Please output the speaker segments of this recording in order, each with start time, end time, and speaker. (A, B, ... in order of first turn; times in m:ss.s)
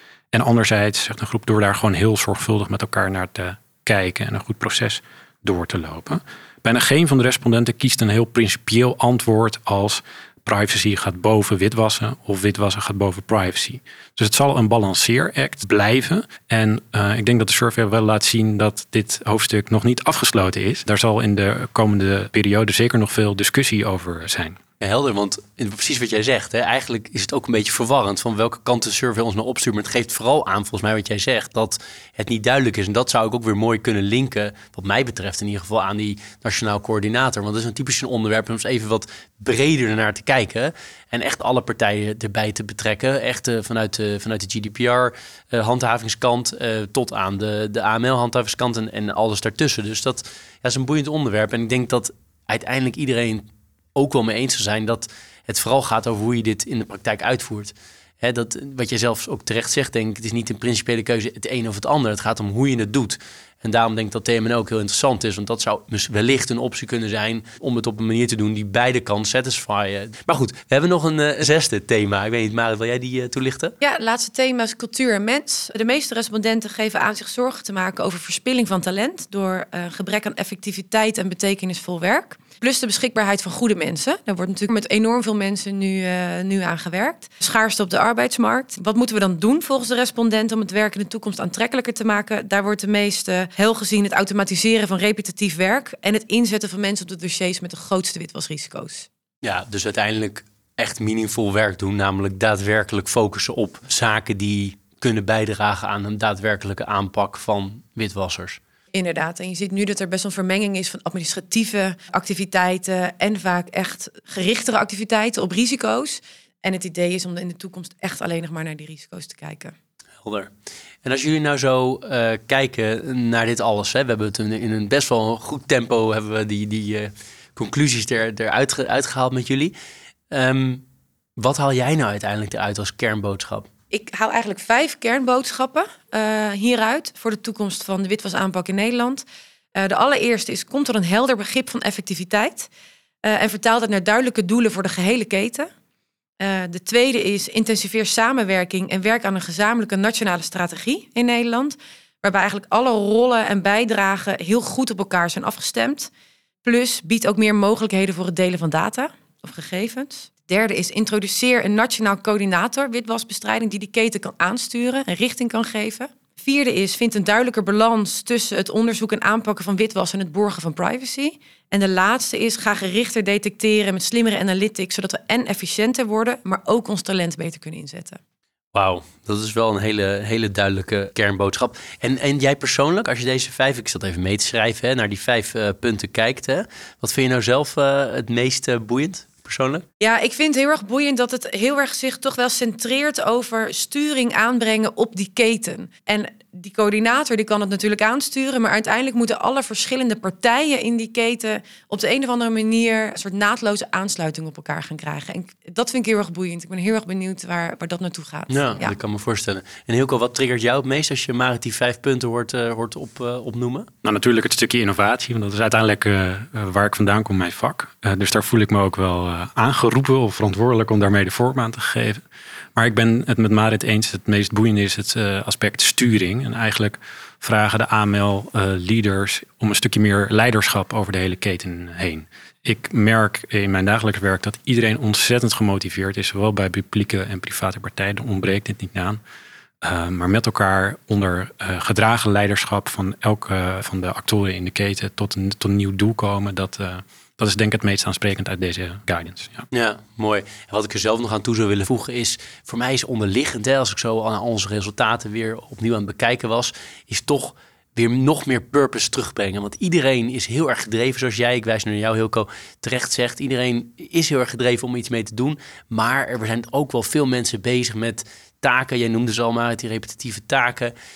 0:00.3-0:24.6 A
0:24.8-1:13.7 B
1:13.8-1:39.1 C
1:39.4-1:48.6 B
1:48.9-1:59.7 C
2:00.2-2:00.5 B
2:01.0-2:09.7 B
2:10.3-2:10.8 B
2:11.4-2:13.7 B
2:13.9-2:19.2 C
2:19.8-2:22.7 C
2:23.2-2:25.7 C
2:26.4-2:36.1 C
2:36.6-2:58.2 C
2:58.7-3:09.8 B
3:10.0-3:28.9 C
3:28.5-3:33.9 B
3:34.0-3:42.2 A
3:42.8-3:59.2 A
3:59.8-4:09.6 A
4:09.7-4:30.9 B